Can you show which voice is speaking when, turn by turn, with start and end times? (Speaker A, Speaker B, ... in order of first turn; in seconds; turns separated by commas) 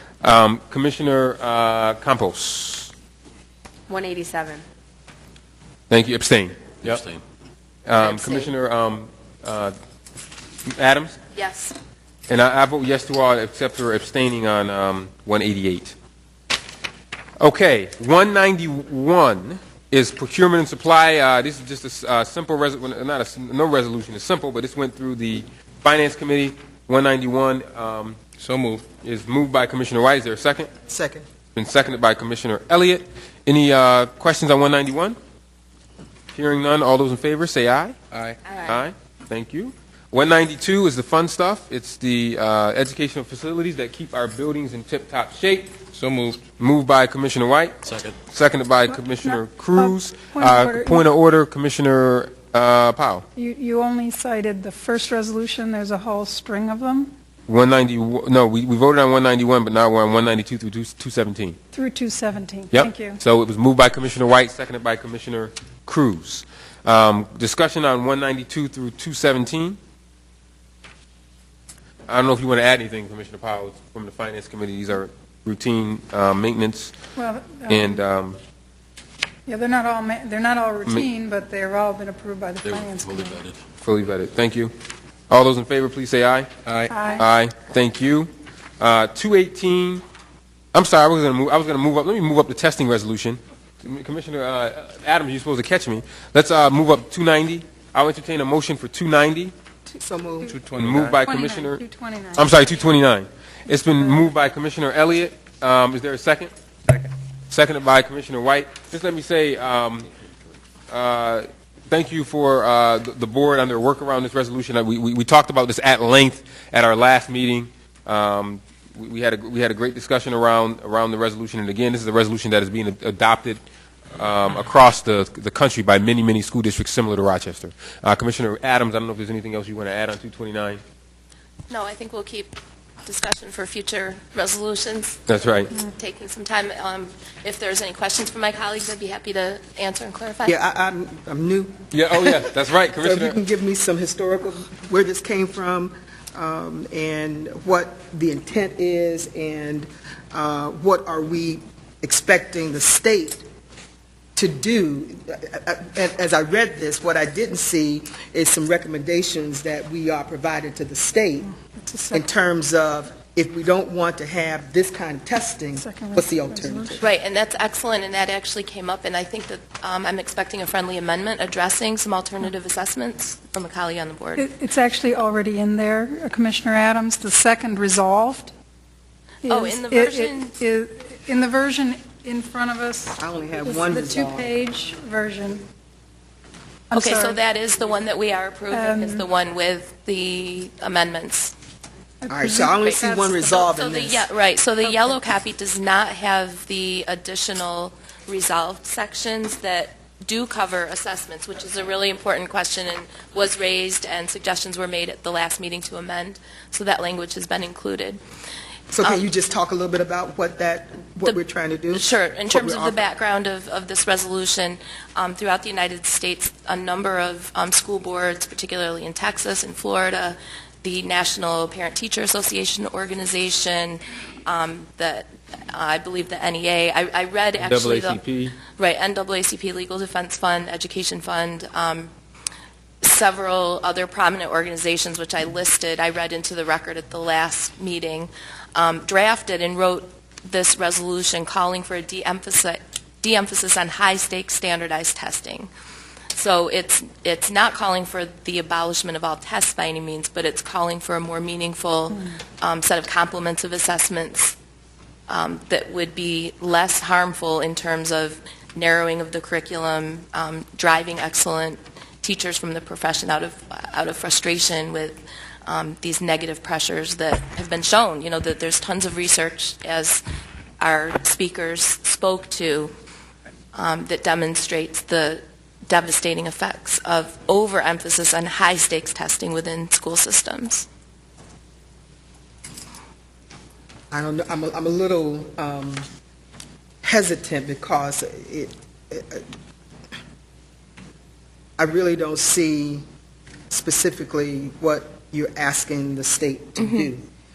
Speaker A: 0.2-2.9, Speaker B: 3.9-4.4, Speaker A: 5.9-7.0, Speaker C: 6.8-7.2, Speaker A: 7.9-9.8, Speaker B: 8.1-8.5, Speaker A: 10.7-11.2, Speaker B: 11.3-11.8, Speaker A: 12.3-15.9, Speaker A: 17.4-28.2, Speaker C: 28.4-28.9, Speaker A: 29.0-30.7, Speaker D: 30.9-31.3, Speaker A: 31.6-35.2, Speaker A: 36.3-38.0, Speaker C: 38.1-38.4, Speaker A: 38.6-45.7, Speaker C: 45.9-46.4, Speaker A: 46.6-53.2, Speaker C: 47.9-48.1, Speaker E: 48.9-51.1, Speaker E: 53.4-57.1, Speaker A: 57.5-61.6, Speaker E: 61.7-63.2, Speaker A: 62.7-69.8, Speaker A: 72.1-77.0, Speaker E: 77.2-78.0, Speaker A: 77.7-78.4, Speaker E: 79.5-83.4, Speaker C: 82.6-83.6, Speaker A: 83.8-84.7, Speaker A: 85.3-86.5, Speaker C: 86.7-86.9, Speaker E: 86.9-87.2, Speaker A: 87.1-90.0, Speaker A: 90.7-99.5, Speaker D: 100.0-100.6, Speaker C: 100.4-101.2, Speaker A: 100.8-101.8, Speaker E: 101.2-102.9, Speaker A: 102.4-106.5, Speaker A: 107.5-110.1, Speaker A: 110.9-123.6, Speaker A: 124.2-130.8, Speaker B: 131.7-140.6, Speaker A: 135.3-135.7, Speaker D: 140.4-153.4, Speaker A: 141.9-143.4, Speaker D: 154.4-161.5, Speaker E: 161.5-162.3, Speaker D: 162.1-167.0, Speaker E: 165.8-167.1, Speaker B: 167.0-174.5, Speaker E: 174.4-178.5, Speaker E: 179.4-185.7, Speaker B: 179.5-180.5, Speaker D: 183.2-184.5, Speaker E: 186.9-187.4, Speaker B: 186.9-191.5, Speaker E: 188.7-189.3, Speaker E: 192.2-193.3, Speaker D: 192.3-194.3, Speaker B: 192.8-208.2, Speaker E: 194.8-195.2, Speaker D: 208.9-213.0, Speaker B: 211.9-232.1, Speaker A: 227.6-228.6, Speaker B: 233.0-245.7, Speaker B: 246.3-254.6, Speaker B: 255.3-270.2, Speaker B: 270.8-272.9, Speaker B: 273.7-280.9, Speaker D: 284.1-286.1, Speaker D: 287.0-289.4, Speaker D: 291.8-293.0, Speaker D: 293.7-297.2, Speaker B: 296.8-297.1